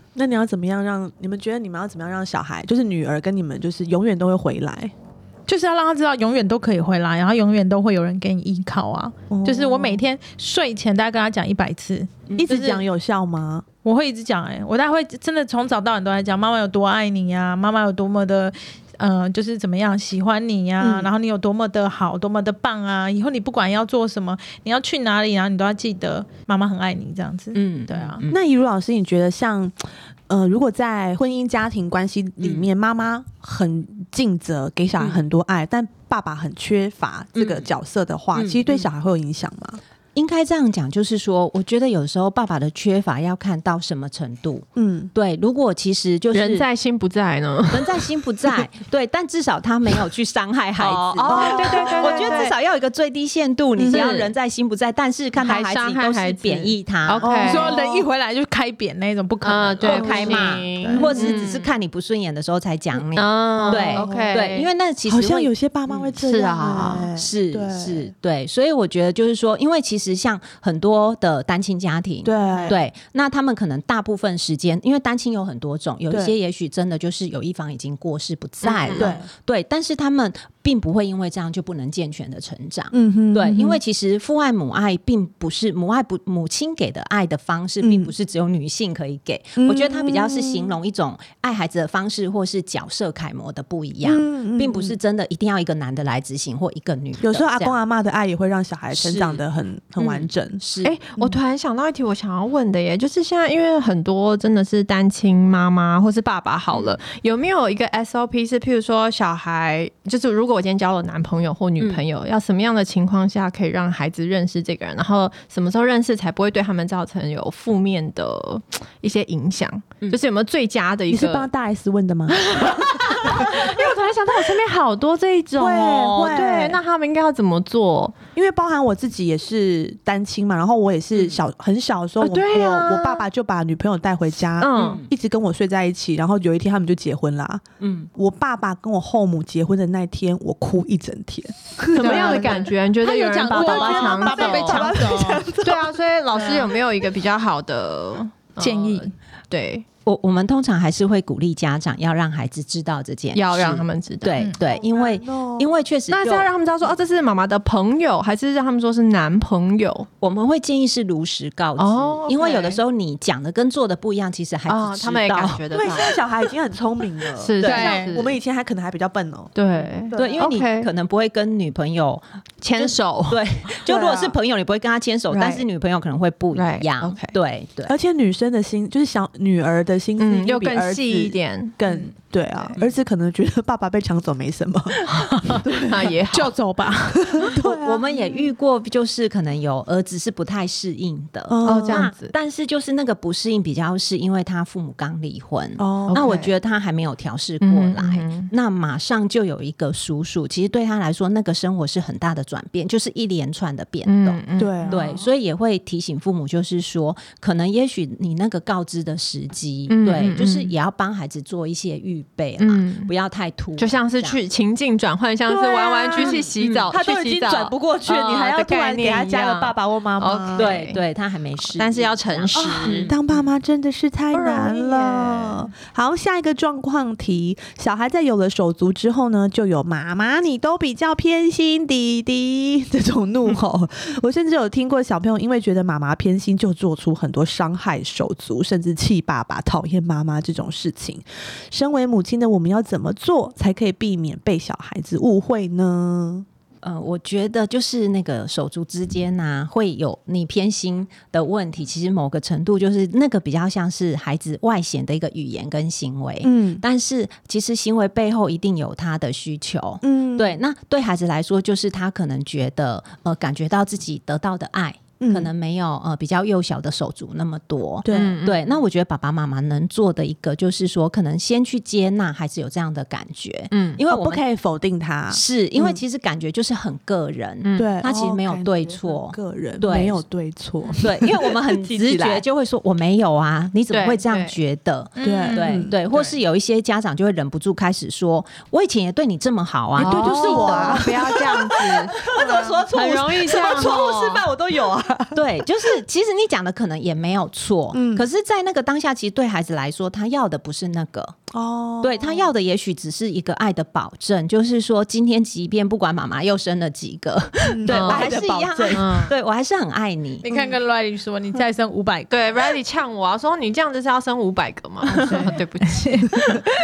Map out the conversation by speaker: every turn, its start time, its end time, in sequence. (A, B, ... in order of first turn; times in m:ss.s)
0:00.2-0:04.9 A
0:05.5-0:12.8 B
0:09.3-0:10.0 A
0:12.3-0:12.5 C
0:12.4-0:13.6 A
0:13.8-0:28.2 B
0:20.8-0:21.1 A
0:27.5-0:28.4 C
0:28.3-0:39.8 A
0:32.4-0:32.7 C
0:37.4-0:37.7 C
0:38.3-0:38.9 C
0:40.1-0:46.6 C
0:44.8-0:45.1 A
0:46.3-0:48.6 D
0:47.7-0:57.3 C
0:50.8-0:52.5 D
0:51.2-0:52.5 A
0:53.8-0:54.0 A
0:53.8-0:54.3 D
0:55.4-0:57.7 D
0:57.2-0:58.1 A
0:57.4-1:01.0 B
0:59.4-1:01.7 D
0:59.8-1:06.1 C
0:59.9-1:01.3 A
1:03.0-1:04.7 D
1:03.6-1:04.3 A
1:05.1-1:08.1 A
1:06.2-1:07.1 D
1:07.1-1:37.8 C
1:12.2-1:12.8 A
1:16.1-1:16.3 A
1:18.6-1:19.2 D
1:18.9-1:19.3 A
1:22.9-1:23.8 A
1:27.8-1:28.1 A
1:29.6-1:30.8 A
1:34.0-1:35.0 A
1:37.2-1:40.6 A
1:38.9-1:39.4 C
1:40.0-1:41.0 C
1:40.8-2:01.5 D
2:01.1-2:03.7 A
2:02.3-2:08.2 D
2:05.6-2:06.8 A
2:08.3-2:17.6 A
2:12.2-2:13.2 D
2:14.6-2:15.0 D
2:14.7-2:15.1 C
2:17.8-2:18.1 C
2:18.1-2:22.7 A
2:21.9-2:25.4 B
2:21.9-2:29.8 D
2:23.4-2:25.9 A
2:26.4-2:26.6 B
2:28.6-2:29.1 B
2:30.0-2:36.5 C
2:33.3-2:34.4 D
2:34.6-2:35.7 A
2:36.1-2:40.1 D
2:40.2-2:45.8 C
2:41.8-2:42.8 D
2:44.7-2:46.2 D
2:45.7-2:49.6 A
2:47.3-2:48.4 D
2:47.6-2:48.1 B
2:49.6-2:50.9 D
2:50.1-2:50.5 A
2:50.1-2:57.9 C
2:52.6-2:53.4 D
2:53.8-2:54.4 A
2:55.3-2:55.6 D
2:56.5-2:57.3 D
2:57.8-3:06.2 A
3:00.2-3:01.7 D
3:01.8-3:02.1 B
3:05.0-3:06.5 D
3:06.2-3:07.5 B
3:07.3-3:08.5 A
3:07.5-3:34.4 C
3:11.5-3:12.1 A
3:11.6-3:12.3 D
3:15.8-3:16.4 A
3:16.1-3:16.5 D
3:17.6-3:18.5 D
3:24.0-3:25.1 D
3:24.6-3:25.2 A
3:29.9-3:30.7 D
3:32.6-3:33.1 D
3:33.8-3:41.0 D
3:35.5-3:40.8 A
3:36.2-3:36.9 C
3:40.6-3:43.2 C
3:41.6-3:43.2 D
3:42.5-4:06.4 A
3:44.3-3:45.7 D
4:06.8-4:34.4 C
4:16.4-4:16.8 A
4:20.0-4:20.6 A
4:25.2-4:25.5 A
4:28.0-4:28.4 A
4:28.1-4:28.7 D
4:33.7-4:34.0 D
4:34.1-4:36.0 A
4:35.3-4:40.2 C
4:37.6-4:37.9 D
4:37.8-4:42.4 A
4:41.0-4:54.0 C
4:43.9-4:44.6 D
4:45.2-4:45.9 B
4:45.2-4:45.9 A
4:46.1-4:46.4 D
4:50.0-4:54.5 D
4:50.0-4:56.0 A
4:55.3-5:01.4 C
4:57.9-4:58.2 A
5:01.5-5:02.5 A
5:02.0-5:10.4 C
5:07.6-5:09.3 A
5:07.9-5:08.4 D
5:08.9-5:09.3 D
5:10.4-5:10.7 D
5:10.4-5:12.3 B
5:12.3-5:16.6 D
5:15.1-5:16.7 B